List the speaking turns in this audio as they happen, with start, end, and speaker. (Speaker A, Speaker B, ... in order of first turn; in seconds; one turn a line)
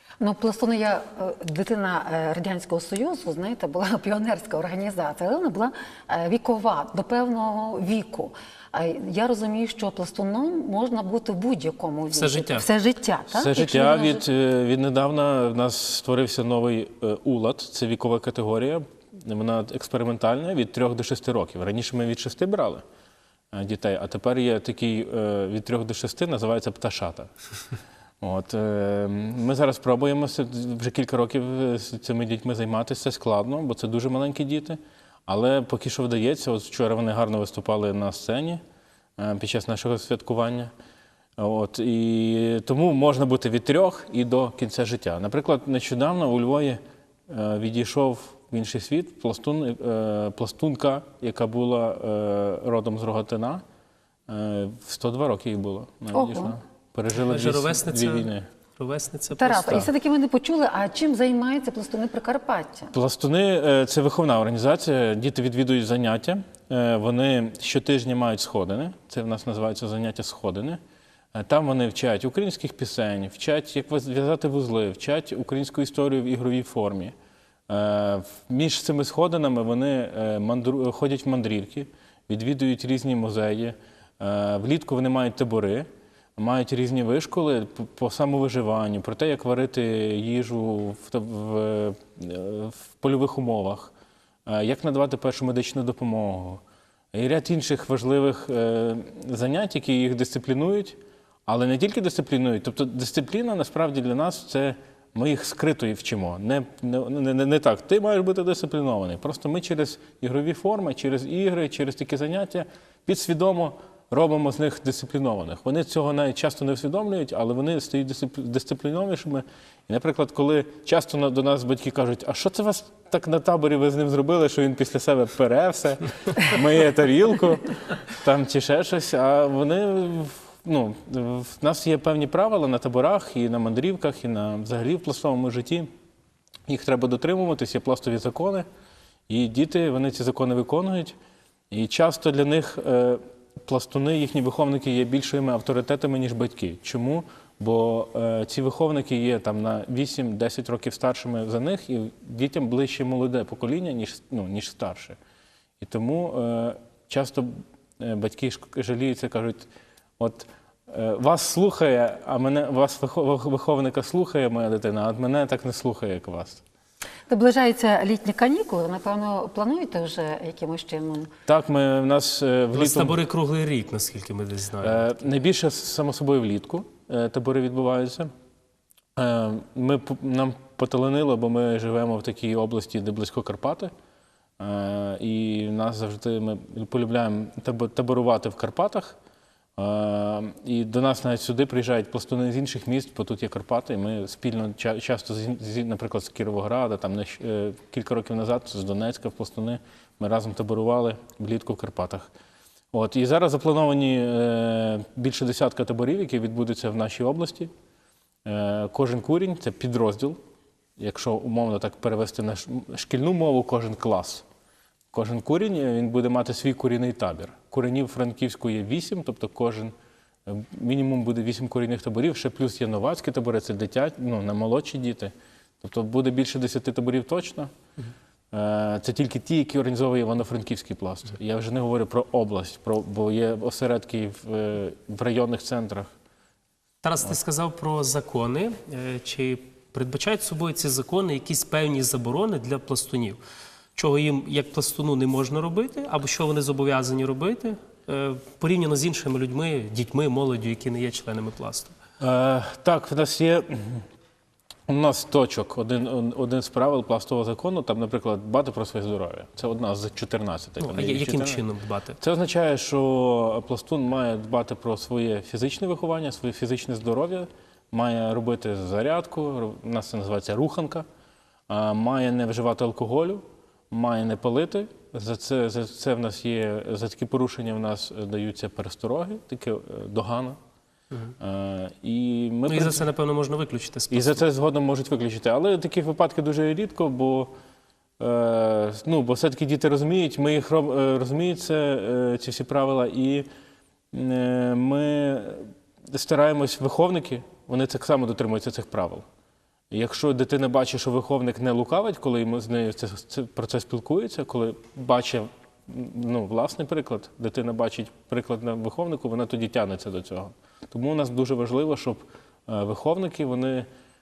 Speaker A: 0.2-14.2
Speaker B: 12.1-12.7
Speaker C: 13.3-22.8
Speaker C: 23.5-27.3
Speaker C: 28.2-38.6
Speaker C: 39.2-40.7
Speaker C: 41.4-53.6
Speaker C: 54.3-58.5
Speaker A: 56.1-56.5
Speaker B: 57.2-59.9
Speaker A: 59.3-62.9
Speaker C: 62.9-70.8
Speaker C: 71.3-77.1
Speaker C: 77.7-93.9
Speaker C: 94.5-96.6
Speaker C: 97.1-135.9
Speaker C: 136.7-138.7
Speaker C: 139.3-141.2
Speaker C: 141.7-155.2
Speaker C: 155.8-159.7
Speaker C: 160.2-166.6
Speaker A: 167.3-171.3
Speaker C: 171.5-173.2
Speaker B: 172.7-175.0
Speaker C: 174.8-178.3
Speaker C: 179.2-183.9
Speaker C: 184.6-189.2
Speaker C: 189.8-202.3
Speaker C: 202.9-207.7
Speaker C: 208.4-210.4
Speaker C: 211.0-214.4
Speaker C: 215.1-219.9
Speaker C: 220.4-227.7
Speaker C: 228.5-236.1
Speaker B: 237.0-243.4
Speaker B: 243.9-251.9
Speaker C: 252.2-254.1
Speaker C: 254.9-261.6
Speaker B: 260.8-262.2
Speaker C: 262.2-271.0
Speaker C: 271.7-280.6
Speaker C: 281.4-283.0
Speaker B: 282.7-284.4
Speaker C: 284.1-287.5
Speaker C: 288.2-293.5
Speaker C: 294.1-299.2
Speaker C: 299.9-313.9